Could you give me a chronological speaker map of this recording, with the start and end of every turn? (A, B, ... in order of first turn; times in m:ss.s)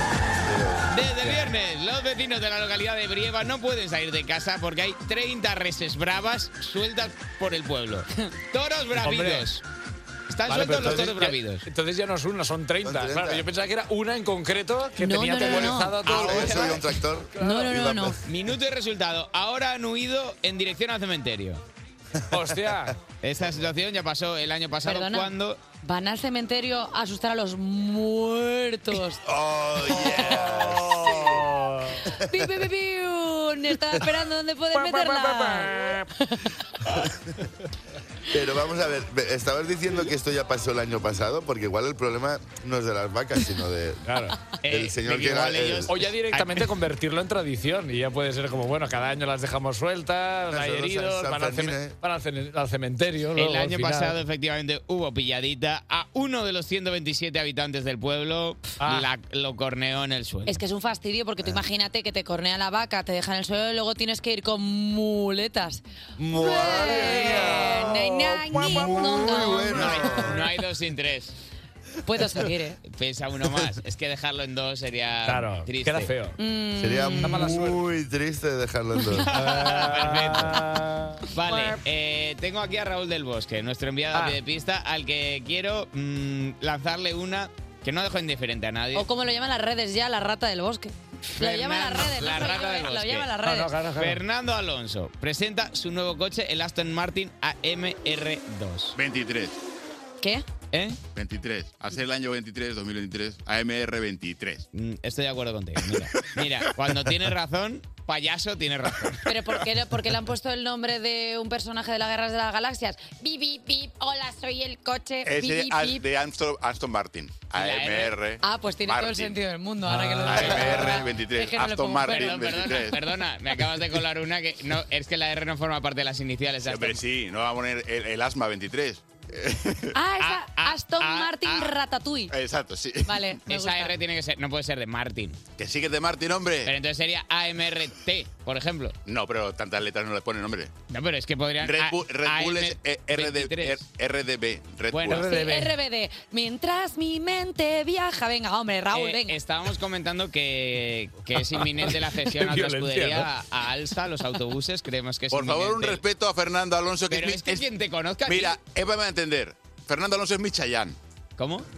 0:00.4-0:00.9 A
0:00.9-0:09.6 B
0:09.0-0:09.5 C
0:10.3-0:11.7 B
0:10.5-0:17.7 C
0:10.8-0:11.1 A
0:12.8-0:13.5 A
0:15.0-0:16.1 D
0:15.4-0:18.2 A
0:16.0-0:16.8 B
0:17.4-0:18.2 D
0:18.2-0:21.6 B
0:22.3-0:23.0 C
0:22.4-0:22.9 A
0:23.2-0:25.6 B
0:24.8-0:29.2 D
0:29.3-0:31.5 A
0:29.8-0:31.4 D
0:30.2-0:32.0 C
0:32.1-0:36.5 D
0:34.7-0:36.1 C
0:38.3-0:44.1 A
0:44.1-0:44.4 C
0:44.6-0:46.7 B
0:44.7-0:45.9 A
0:45.9-0:54.2 C
0:50.5-0:52.0 A
0:53.4-1:00.6 B
0:58.8-0:59.1 C
1:00.5-1:10.2 D
1:06.2-1:10.4 A
1:07.0-1:07.8 C
1:08.5-1:09.4 C
1:09.7-1:11.4 B
1:12.1-1:12.8 D
1:12.8-1:16.1 B
1:15.2-1:16.4 C
1:16.4-1:17.6 D
1:16.8-1:19.3 A
1:17.2-1:17.8 C
1:19.2-1:20.6 B
1:19.3-1:21.7 C
1:21.3-1:29.1 B
1:24.1-1:24.4 C
1:28.9-1:33.8 D
1:31.3-1:33.3 B
1:33.4-1:34.2 C
1:34.0-1:39.0 B
1:39.0-1:39.5 E
1:40.7-1:41.0 B
1:41.2-1:44.7 E
1:44.7-1:49.3 B
1:49.2-1:56.1 D
1:55.2-1:59.4 E
1:57.6-1:58.2 B
1:58.4-2:02.6 D
1:59.9-2:00.5 C
2:00.2-2:03.0 E
2:00.3-2:01.0 B
2:02.0-2:07.0 B
2:06.6-2:09.9 E
2:09.9-2:12.3 D
2:10.2-2:11.7 B
2:12.3-2:13.2 E
2:13.0-2:14.0 D
2:13.5-2:15.4 B
2:15.6-2:16.7 E
2:16.6-2:19.0 B
2:19.0-2:20.7 E
2:20.9-2:23.8 B
2:21.6-2:25.3 E
2:24.9-2:25.3 B
2:25.1-2:25.7 C
2:25.1-2:29.4 D
2:28.9-2:36.0 B
2:31.5-2:33.3 C
2:35.3-2:37.7 E
2:37.1-2:38.6 B
2:38.2-2:41.0 E
2:41.4-2:41.7 B